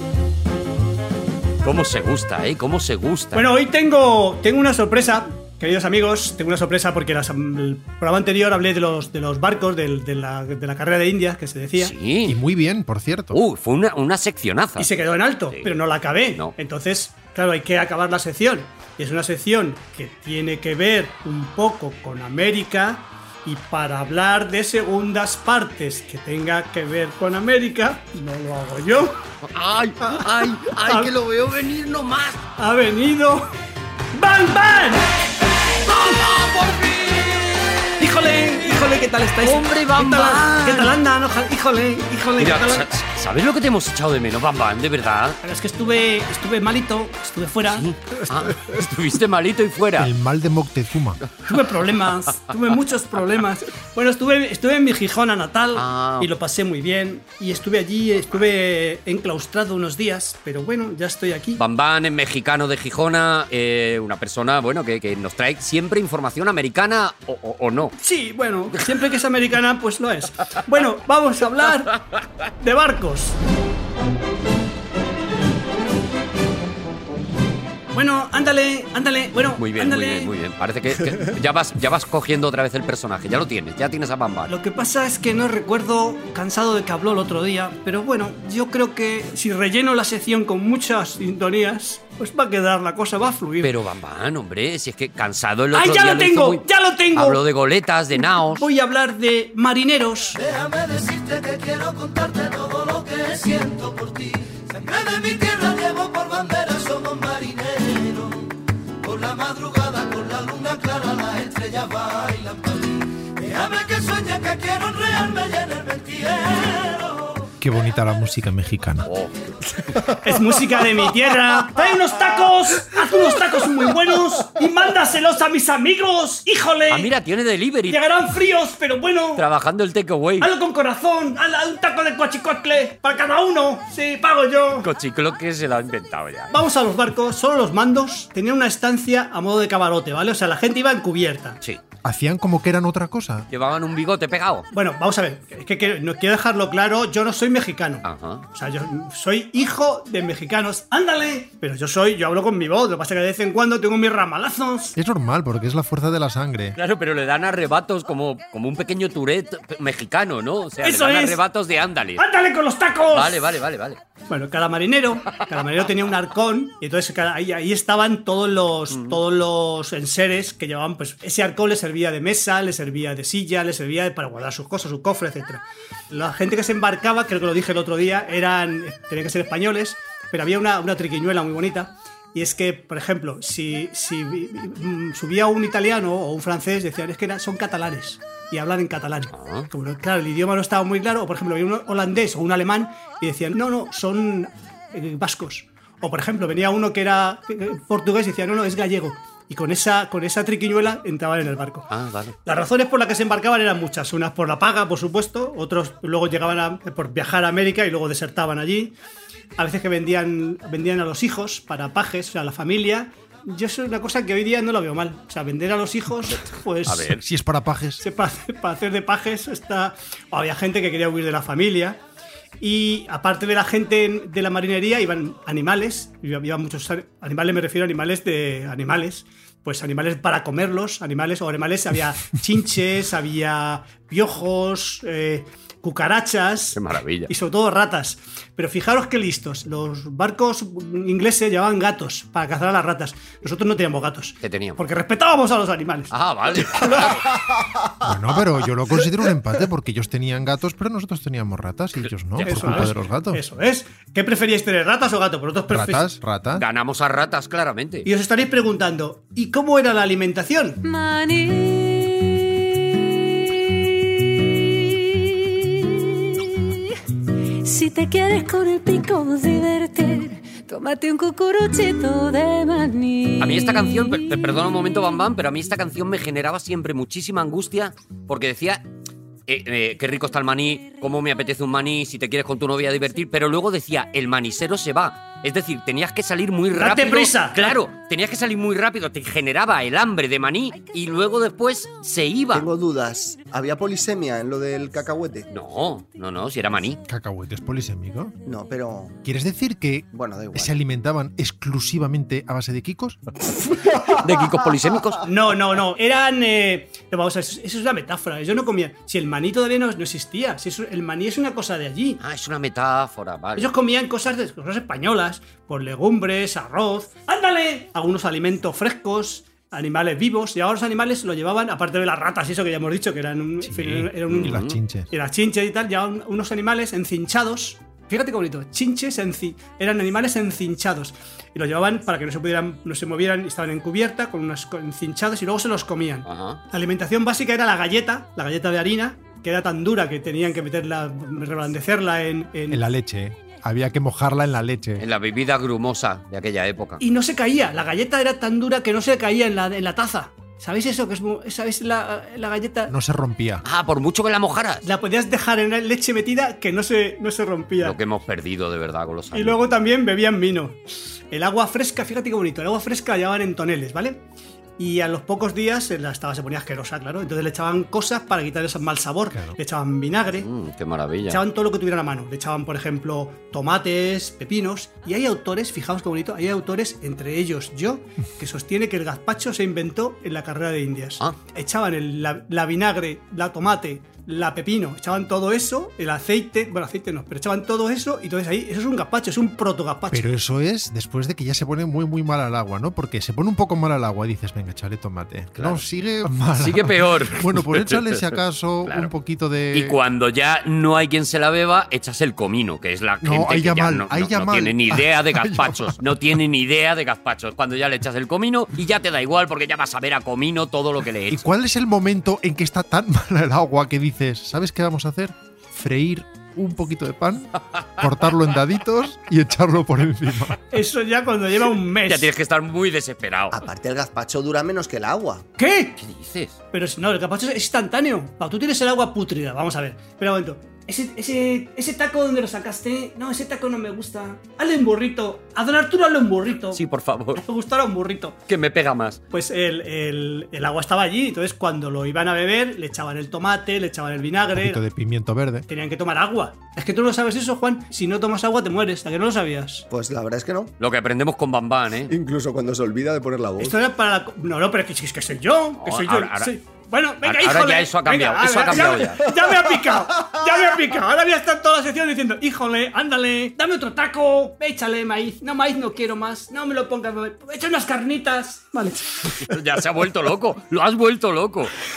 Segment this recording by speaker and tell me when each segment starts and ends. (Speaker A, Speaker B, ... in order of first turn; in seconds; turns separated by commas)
Speaker A: 1.6-3.5, Speaker B: 3.3-11.9, Speaker A: 11.8-12.3, Speaker C: 12.2-13.4, Speaker A: 13.3-14.9, Speaker B: 14.8-29.2, Speaker A: 29.4-32.4, Speaker B: 30.0-30.3, Speaker B: 30.8-31.1, Speaker B: 32.6-33.5, Speaker B: 34.1-35.1, Speaker A: 35.9-37.7, Speaker B: 38.0-42.9, Speaker A: 39.4-40.9, Speaker A: 42.4-45.4, Speaker B: 45.4-47.9, Speaker A: 47.7-50.1, Speaker C: 50.0-51.2, Speaker B: 51.5-61.6, Speaker A: 55.7-56.3, Speaker A: 61.6-67.9, Speaker B: 68.0-72.0, Speaker B: 72.6-73.4, Speaker B: 77.9-80.3, Speaker A: 79.6-84.5, Speaker B: 84.5-93.7, Speaker A: 93.6-96.6, Speaker B: 95.7-97.4, Speaker A: 97.1-98.7, Speaker B: 98.5-100.4, Speaker D: 100.4-108.5, Speaker D: 109.0-117.4, Speaker C: 117.6-119.1, Speaker A: 119.0-119.4, Speaker B: 120.1-127.1, Speaker A: 126.9-128.0, Speaker B: 127.9-129.4, Speaker A: 129.3-130.5, Speaker B: 130.4-134.9, Speaker A: 134.8-136.5, Speaker B: 136.5-141.6, Speaker C: 142.0-143.5, Speaker A: 143.5-144.7, Speaker B: 144.7-154.9, Speaker A: 148.0-148.4, Speaker C: 154.9-156.8, Speaker A: 156.8-162.2, Speaker B: 160.8-161.4, Speaker B: 162.2-163.5, Speaker A: 163.1-164.0, Speaker B: 164.3-201.9, Speaker A: 168.9-169.2, Speaker A: 189.3-189.7, Speaker A: 201.9-202.3, Speaker B: 202.4-208.9, Speaker B: 209.6-217.1, Speaker A: 216.8-217.2, Speaker C: 217.2-218.0, Speaker B: 218.0-222.0, Speaker B: 222.6-246.1, Speaker A: 236.7-237.3, Speaker A: 244.4-244.8, Speaker A: 246.1-247.3, Speaker B: 246.7-247.0, Speaker C: 248.0-253.4, Speaker A: 252.3-252.9, Speaker B: 252.4-256.1, Speaker C: 255.7-256.6, Speaker A: 256.5-258.1, Speaker B: 258.1-260.8, Speaker E: 260.8-267.0, Speaker E: 267.6-274.5, Speaker A: 273.4-278.8, Speaker A: 279.5-292.6, Speaker B: 286.7-287.8, Speaker F: 292.5-295.5, Speaker A: 295.5-297.0, Speaker C: 297.1-298.3, Speaker F: 298.4-299.1, Speaker C: 299.2-303.2, Speaker F: 300.1-300.7, Speaker A: 303.9-305.2, Speaker B: 305.2-312.2, Speaker A: 312.2-313.7, Speaker B: 313.6-342.8, Speaker C: 323.6-325.1, Speaker A: 324.3-324.8, Speaker A: 336.2-336.6, Speaker C: 342.7-345.0, Speaker A: 345.0-347.0, Speaker B: 347.0-352.9, Speaker C: 352.9-353.6, Speaker A: 353.6-354.8, Speaker B: 354.8-357.9, Speaker A: 357.8-359.6, Speaker B: 359.3-364.2, Speaker B: 364.8-370.5, Speaker C: 369.3-369.6, Speaker A: 370.4-371.4, Speaker B: 371.3-390.3, Speaker C: 390.1-400.0, Speaker A: 395.5-395.8, Speaker A: 396.5-398.3, Speaker A: 398.9-399.1, Speaker A: 399.7-411.4, Speaker C: 403.2-406.3, Speaker C: 411.3-420.6, Speaker B: 420.7-422.3, Speaker A: 422.1-423.6, Speaker F: 423.5-425.4, Speaker B: 425.6-425.9, Speaker A: 426.0-426.6, Speaker B: 426.7-436.8, Speaker A: 436.7-437.4, Speaker B: 437.4-438.4, Speaker A: 438.5-439.2, Speaker B: 439.3-444.8, Speaker C: 444.6-445.7, Speaker B: 445.7-449.8, Speaker F: 449.9-450.7, Speaker A: 450.8-452.1, Speaker F: 452.1-453.8, Speaker B: 453.6-469.3, Speaker A: 455.8-456.5, Speaker A: 457.2-459.2, Speaker A: 469.4-471.7